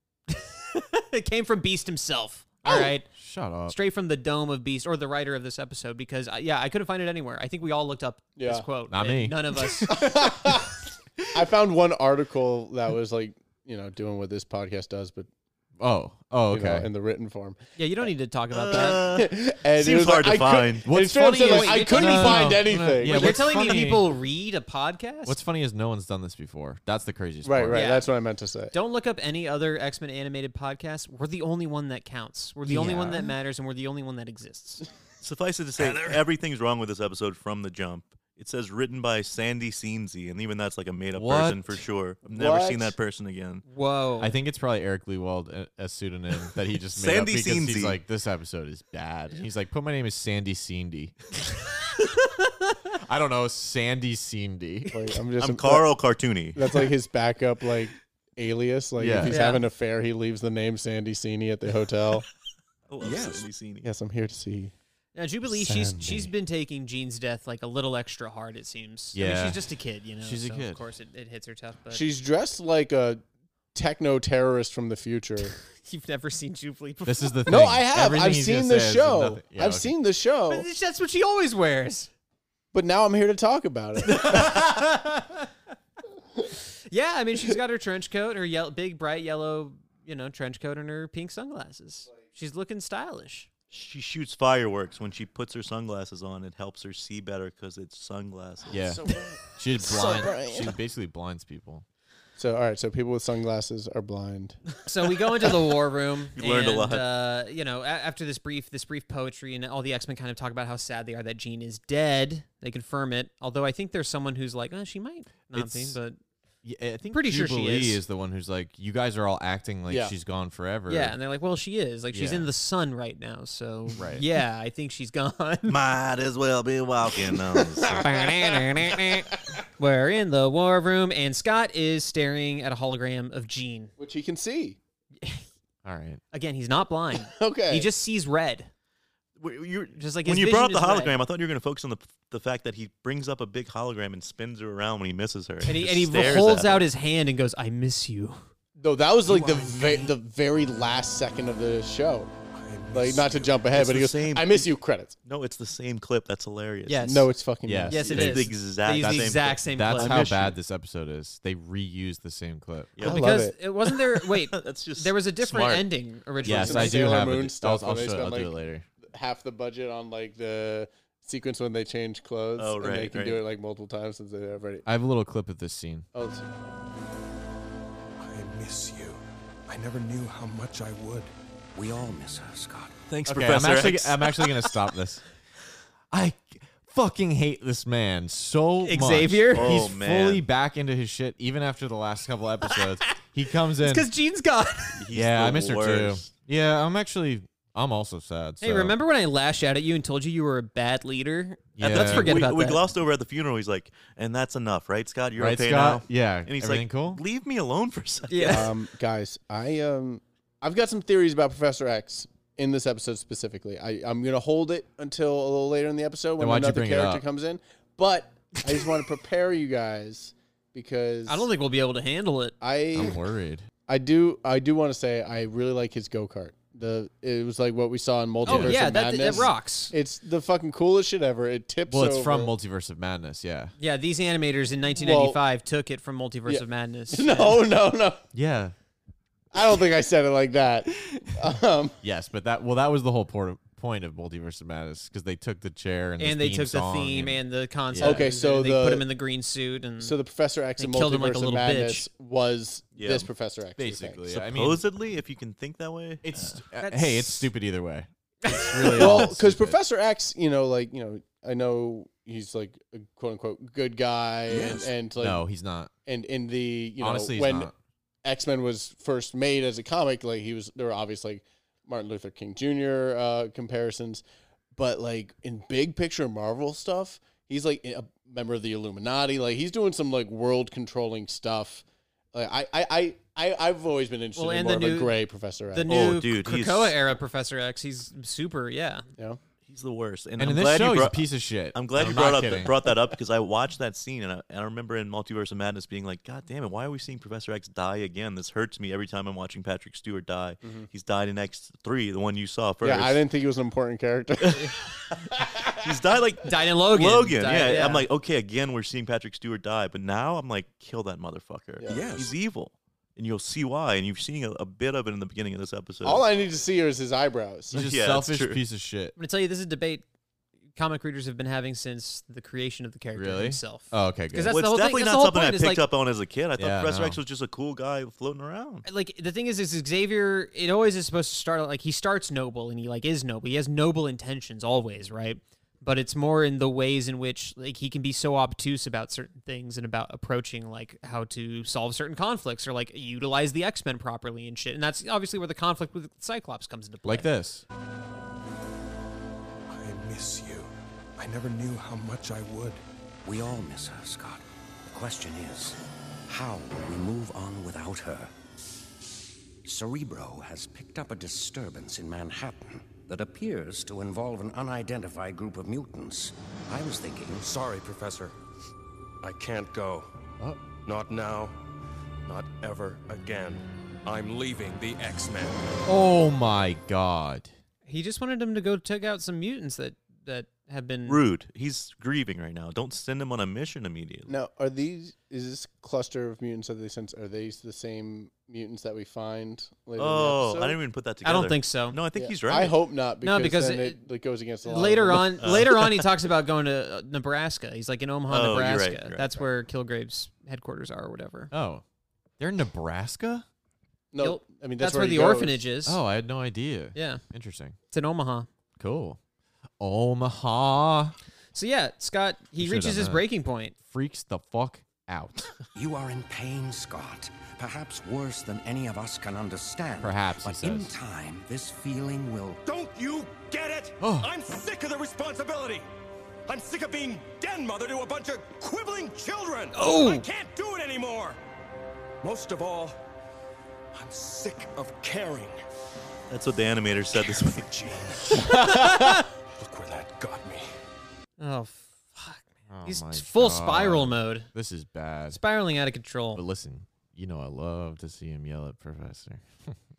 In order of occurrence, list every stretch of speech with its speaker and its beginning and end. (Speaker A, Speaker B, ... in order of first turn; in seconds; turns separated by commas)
Speaker A: 0.3-3.1, Speaker B: 2.7-3.8, Speaker A: 3.7-10.0, Speaker C: 8.4-8.7, Speaker B: 8.9-10.3, Speaker C: 9.9-10.8, Speaker C: 11.3-15.3, Speaker B: 15.8-16.9, Speaker C: 16.5-17.6, Speaker A: 17.8-19.1, Speaker D: 18.5-20.9, Speaker C: 18.7-23.7, Speaker B: 20.9-24.1, Speaker A: 21.4-25.4, Speaker B: 25.3-27.9, Speaker C: 27.4-28.7, Speaker A: 27.7-28.1, Speaker A: 28.7-34.8, Speaker B: 32.7-33.2, Speaker C: 32.7-33.3, Speaker D: 35.2-43.6, Speaker E: 35.8-36.2, Speaker B: 41.1-41.8, Speaker C: 42.3-43.0, Speaker A: 43.7-44.4, Speaker B: 44.2-51.3, Speaker D: 46.9-48.0, Speaker B: 53.0-54.9, Speaker C: 54.9-55.9, Speaker D: 55.4-56.6, Speaker C: 56.5-62.3, Speaker B: 59.0-59.4, Speaker A: 59.3-59.7, Speaker D: 62.9-63.9, Speaker E: 63.0-63.5, Speaker C: 63.8-64.7, Speaker A: 65.2-72.0, Speaker C: 65.5-66.3, Speaker B: 69.1-69.7, Speaker B: 70.2-70.8, Speaker C: 71.9-73.2, Speaker C: 73.7-75.5, Speaker A: 75.8-77.4, Speaker B: 77.0-79.9, Speaker C: 77.5-80.7, Speaker A: 80.5-82.1, Speaker C: 82.7-84.7, Speaker A: 84.0-85.5, Speaker A: 86.9-93.5, Speaker D: 93.7-98.9, Speaker C: 98.7-100.8, Speaker B: 98.7-101.8, Speaker C: 102.4-104.6, Speaker A: 104.9-116.2, Speaker D: 106.4-107.1, Speaker B: 115.5-116.0, Speaker B: 116.6-121.2, Speaker A: 117.1-118.0, Speaker C: 119.9-120.1, Speaker A: 120.9-125.8, Speaker B: 122.1-122.5, Speaker B: 124.0-124.2, Speaker D: 125.7-128.1, Speaker C: 127.6-128.2, Speaker A: 127.9-133.9, Speaker C: 134.0-134.8, Speaker A: 135.2-135.4, Speaker B: 135.8-136.2, Speaker A: 136.3-138.7, Speaker C: 137.2-137.9, Speaker D: 139.4-146.9, Speaker A: 140.0-141.2, Speaker A: 145.7-148.4, Speaker C: 148.8-152.3, Speaker E: 149.3-150.1, Speaker E: 152.5-153.7, Speaker C: 152.9-155.2, Speaker D: 153.7-154.7, Speaker D: 155.2-157.1, Speaker A: 156.9-157.3, Speaker C: 157.0-158.3, Speaker B: 157.7-158.4, Speaker A: 157.9-160.5, Speaker D: 158.1-160.6, Speaker B: 159.1-163.0, Speaker D: 163.0-163.2, Speaker C: 163.0-163.6, Speaker A: 163.0-167.0, Speaker D: 163.9-165.8, Speaker B: 166.4-168.8, Speaker C: 166.4-174.9, Speaker D: 172.6-173.4, Speaker B: 174.9-176.1, Speaker C: 176.1-176.5, Speaker E: 178.2-181.3, Speaker F: 181.8-182.9, Speaker D: 183.1-184.5, Speaker B: 183.3-185.2, Speaker B: 186.1-194.1, Speaker A: 188.8-189.8, Speaker D: 189.5-190.4, Speaker A: 193.8-195.0, Speaker D: 195.0-196.3, Speaker B: 195.1-198.9, Speaker A: 198.6-202.8, Speaker B: 201.8-202.4, Speaker D: 201.8-208.7, Speaker B: 205.4-207.2, Speaker A: 208.3-208.7, Speaker C: 208.5-221.5, Speaker B: 216.4-217.2, Speaker A: 221.3-222.6, Speaker C: 222.6-223.2, Speaker B: 222.9-223.7, Speaker C: 223.9-232.5, Speaker B: 228.5-228.8, Speaker A: 228.5-229.9, Speaker B: 231.9-233.7, Speaker A: 233.8-237.6, Speaker C: 234.9-235.4, Speaker C: 236.5-238.2, Speaker B: 238.3-238.7, Speaker C: 239.5-242.0, Speaker B: 241.1-241.4, Speaker B: 242.0-248.3, Speaker A: 246.2-250.2, Speaker C: 248.0-249.1, Speaker C: 250.0-254.2, Speaker A: 250.8-252.1, Speaker D: 252.9-253.3, Speaker B: 253.8-254.8, Speaker D: 254.3-256.6, Speaker B: 256.2-259.8, Speaker A: 256.8-257.5, Speaker A: 258.4-259.3, Speaker C: 259.0-265.4, Speaker E: 264.5-264.9, Speaker B: 265.2-265.9, Speaker C: 266.1-267.7, Speaker B: 267.0-267.7, Speaker C: 268.2-274.2, Speaker C: 274.8-286.1, Speaker A: 284.4-285.1, Speaker A: 285.7-289.1, Speaker D: 285.9-287.0, Speaker D: 289.7-303.2, Speaker B: 290.4-292.7, Speaker C: 300.6-300.9, Speaker C: 302.8-305.9, Speaker D: 305.7-316.3, Speaker A: 306.4-308.1, Speaker E: 311.9-312.3, Speaker C: 316.0-317.9, Speaker B: 317.7-319.2, Speaker D: 317.8-318.6, Speaker A: 319.2-320.0, Speaker A: 320.8-325.8, Speaker B: 323.1-324.5, Speaker D: 324.5-328.9, Speaker B: 326.6-327.2, Speaker A: 328.9-347.3, Speaker B: 347.1-347.6, Speaker E: 349.7-352.8, Speaker F: 353.2-358.3, Speaker F: 359.6-367.4, Speaker E: 367.3-368.4, Speaker E: 369.2-370.1, Speaker E: 370.8-371.6, Speaker E: 372.3-375.6, Speaker B: 375.9-377.5, Speaker A: 377.9-381.2, Speaker D: 381.1-384.3, Speaker C: 384.3-390.8, Speaker D: 390.0-392.8, Speaker A: 391.2-392.0, Speaker C: 392.1-395.5, Speaker A: 393.2-394.0, Speaker A: 394.6-401.5, Speaker D: 395.4-396.0, Speaker D: 398.3-399.5, Speaker B: 401.5-401.8, Speaker B: 402.4-403.5, Speaker C: 404.1-405.6, Speaker A: 404.2-406.0, Speaker B: 405.9-407.8, Speaker A: 406.9-407.2, Speaker A: 407.9-408.5, Speaker B: 408.8-409.2, Speaker B: 409.8-411.2, Speaker A: 411.5-413.8, Speaker B: 412.6-413.2, Speaker B: 413.8-415.5, Speaker F: 415.8-422.6, Speaker B: 420.0-420.9, Speaker E: 422.6-425.9, Speaker B: 424.0-424.3, Speaker E: 426.5-431.4, Speaker A: 429.7-430.3, Speaker E: 432.2-433.0, Speaker E: 433.9-435.6, Speaker D: 436.3-437.7, Speaker E: 437.1-438.6, Speaker A: 438.4-439.3, Speaker E: 439.5-440.7, Speaker A: 441.4-444.5, Speaker B: 442.7-445.4, Speaker A: 445.3-446.4, Speaker B: 446.4-449.8